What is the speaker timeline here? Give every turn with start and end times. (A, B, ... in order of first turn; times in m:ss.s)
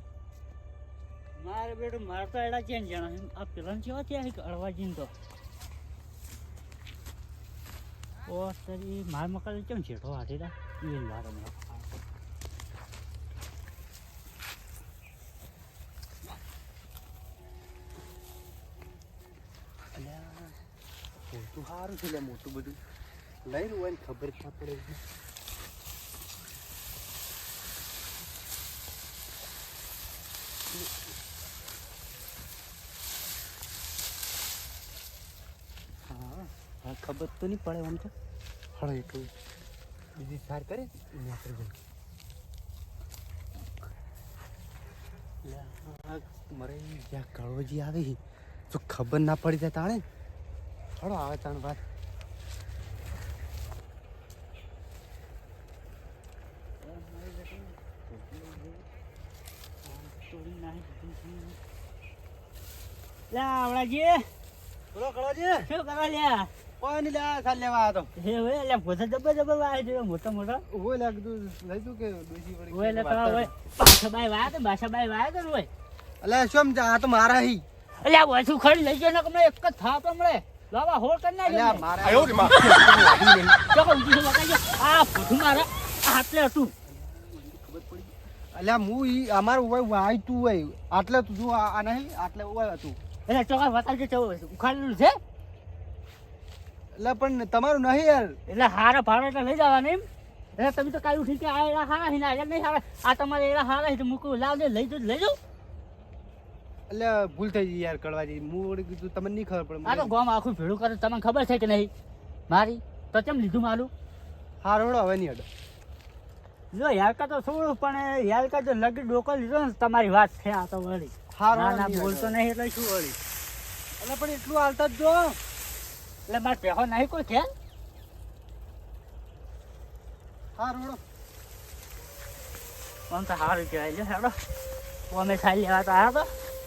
0:01.4-0:05.1 A
0:08.2-0:12.0 A
0:19.9-0:20.6 B
0:21.3-0:22.8 B
0:23.4-0:25.0 B
0:36.1-0:38.1 B
0:38.8-0:39.3 B
0:40.2-0:41.8 B
0:45.4-0:48.2 B
0:48.7-0:50.0 B
0:51.0-0:51.8 B
0:56.8-0:58.8 A
0:59.8-1:01.6 A
1:03.3-1:04.3 A
1:04.9-1:05.7 B
1:05.6-1:06.5 A
1:06.8-1:08.1 B
1:08.2-1:10.6 A
1:10.7-1:13.5 B
1:12.7-1:15.7 A
1:16.2-1:17.6 B
1:18.0-1:21.8 A
1:21.4-1:23.6 B
1:23.7-1:26.7 A
1:26.8-1:33.0 B
1:33.3-1:35.2 A
1:37.0-1:38.4 B
1:38.5-1:40.0 A
1:40.6-1:45.4 A
1:46.9-1:50.1 B
1:49.8-1:51.9 A
1:52.5-1:53.9 A
1:54.6-1:55.5 B
1:56.7-2:03.2 A
2:01.3-2:02.4 B
2:04.0-2:05.4 B
2:06.3-2:07.5 A
2:10.6-2:11.0 B
2:13.1-2:14.3 A
2:15.1-2:16.3 A